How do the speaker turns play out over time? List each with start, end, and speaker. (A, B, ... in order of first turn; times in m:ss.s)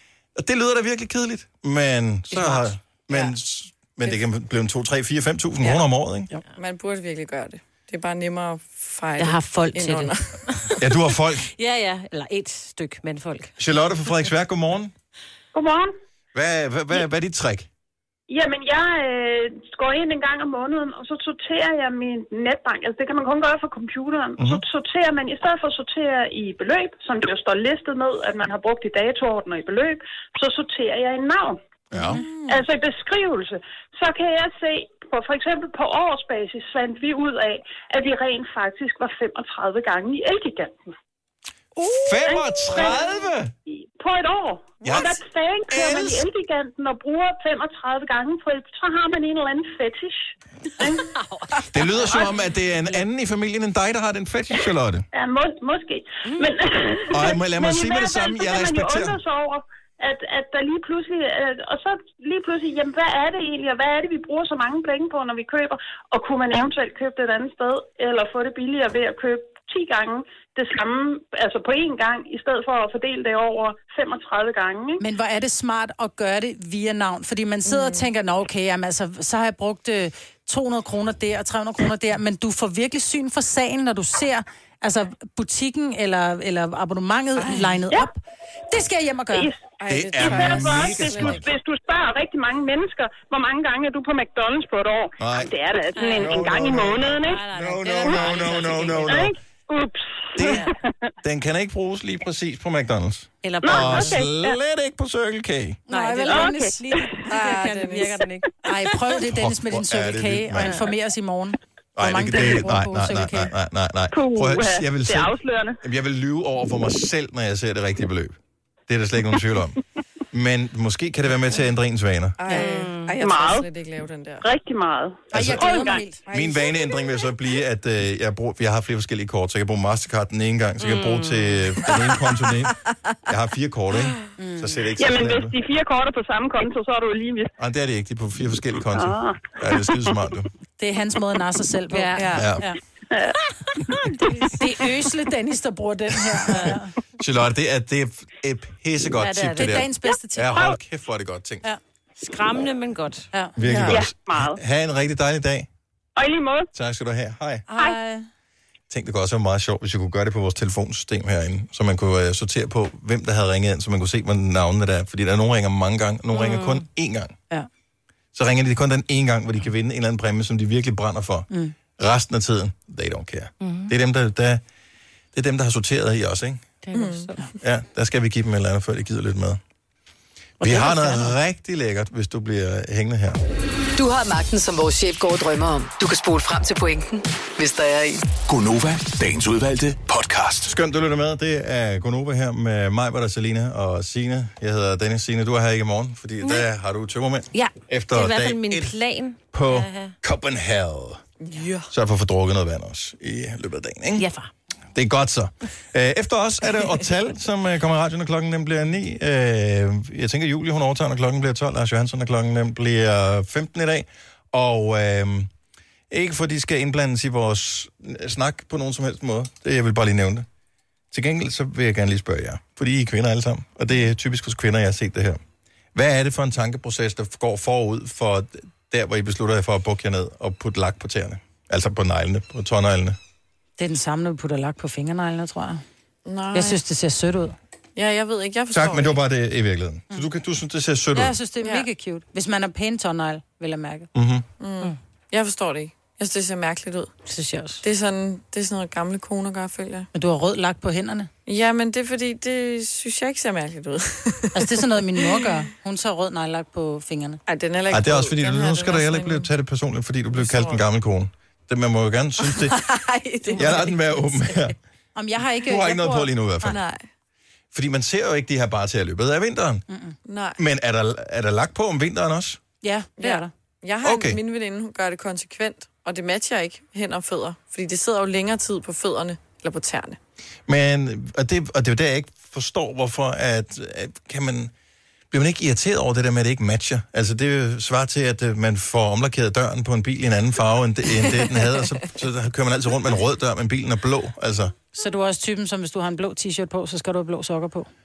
0:00.4-0:06.3 A
0:02.3-0:03.2 B
0:05.6-0:05.9 C
0:06.5-0:10.4 C
0:09.2-0:13.5 B
0:10.8-0:11.5 A
0:13.6-0:14.9 A
0:15.5-0:15.9 D
0:16.3-0:17.7 A
0:18.3-0:31.6 D
0:31.9-0:32.2 A
0:32.1-0:32.6 C
0:32.4-0:40.9 D
0:41.8-0:43.5 A
0:42.2-0:51.1 D
0:42.7-0:43.0 B
0:44.8-0:45.2 A
0:45.7-0:46.3 A
0:51.1-0:51.7 B
0:51.7-0:55.1 A
0:55.1-1:15.0 D
0:56.2-0:56.6 B
0:57.1-0:59.2 A
1:15.0-1:29.5 E
1:27.4-1:27.8 C
1:29.3-1:37.4 D
1:29.8-1:31.6 C
1:29.9-1:31.5 A
1:35.2-1:35.5 A
1:35.9-1:36.5 B
1:36.2-1:39.4 A
1:37.1-1:39.2 B
1:38.9-1:41.1 D
1:40.4-1:40.7 A
1:40.4-1:40.7 B
1:41.2-1:45.8 A
1:43.4-1:44.2 B
1:43.6-1:44.6 D
1:45.9-1:46.7 B
1:45.9-1:47.9 E
1:46.3-1:47.0 D
1:47.3-1:48.5 B
1:47.3-1:48.2 C
1:48.6-1:53.5 E
1:49.2-1:50.8 A
1:50.6-1:50.9 B
1:52.0-1:58.4 A
1:54.1-1:55.8 D
1:58.9-1:59.8 A
2:00.3-2:02.4 A
2:02.4-2:04.5 C
2:02.5-2:03.2 B
2:03.2-2:03.7 D
2:04.4-2:06.1 D
2:05.3-2:06.2 E
2:05.3-2:05.7 A
2:06.2-2:07.0 C
2:06.3-2:15.6 A
2:10.8-2:11.9 B
2:14.4-2:14.7 E
2:15.0-2:17.5 D
2:17.6-2:20.5 A
2:18.9-2:20.2 D
2:20.8-2:22.8 E
2:21.9-2:22.4 B
2:22.2-2:22.5 C
2:22.4-2:22.6 A
2:24.2-2:26.9 E
2:26.5-2:26.8 B
2:27.2-2:31.6 A
2:29.2-2:29.9 B
2:29.2-2:30.6 E
2:32.2-2:34.0 B
2:33.3-2:34.0 E
2:33.6-2:35.7 A
2:33.9-2:34.6 D
2:36.2-2:36.7 D
2:36.7-2:37.6 A
2:37.7-2:38.2 E
2:38.9-2:47.4 A
2:46.3-2:46.8 B
2:48.3-2:54.6 A
2:51.5-2:51.8 E
2:53.6-2:53.9 B
2:55.3-2:56.7 A
2:56.8-2:57.5 B
2:56.9-2:57.4 C
2:57.6-2:59.6 A
3:00.6-3:01.3 E
3:00.6-3:03.4 A
3:04.0-3:08.3 F
3:08.5-3:10.7 G
3:10.7-3:19.0 A
3:17.5-3:20.1 B
3:19.5-3:21.2 A
3:21.4-3:21.9 C
3:21.9-3:24.3 A
3:24.2-3:24.5 B
3:25.0-3:35.5 A
3:36.1-3:40.5 A
3:41.1-3:45.4 A
3:45.9-3:53.2 A
3:53.8-3:55.8 E
3:56.2-3:56.8 C
3:56.5-3:57.6 E
3:58.0-3:59.2 C
3:58.7-4:01.4 A
4:01.1-4:04.1 E
4:01.6-4:01.9 C
4:04.1-4:04.5 A
4:04.6-4:07.2 C
4:07.3-4:07.8 B
4:07.8-4:10.1 C
4:10.1-4:11.3 E
4:11.5-4:15.4 C
4:14.5-4:17.4 E
4:17.5-4:19.5 C
4:17.9-4:22.8 A
4:20.3-4:20.8 C
4:22.4-4:24.0 C
4:23.6-4:24.8 A
4:25.2-4:26.3 E
4:25.6-4:26.8 A
4:26.6-4:27.0 C
4:27.7-4:29.8 A
4:29.9-4:30.2 E
4:30.3-4:30.6 C
4:30.6-4:32.6 A
4:32.8-4:33.5 E
4:33.2-4:40.2 C
4:34.0-4:34.4 A
4:40.7-4:44.7 A
4:45.3-4:54.8 A
4:54.9-4:57.9 E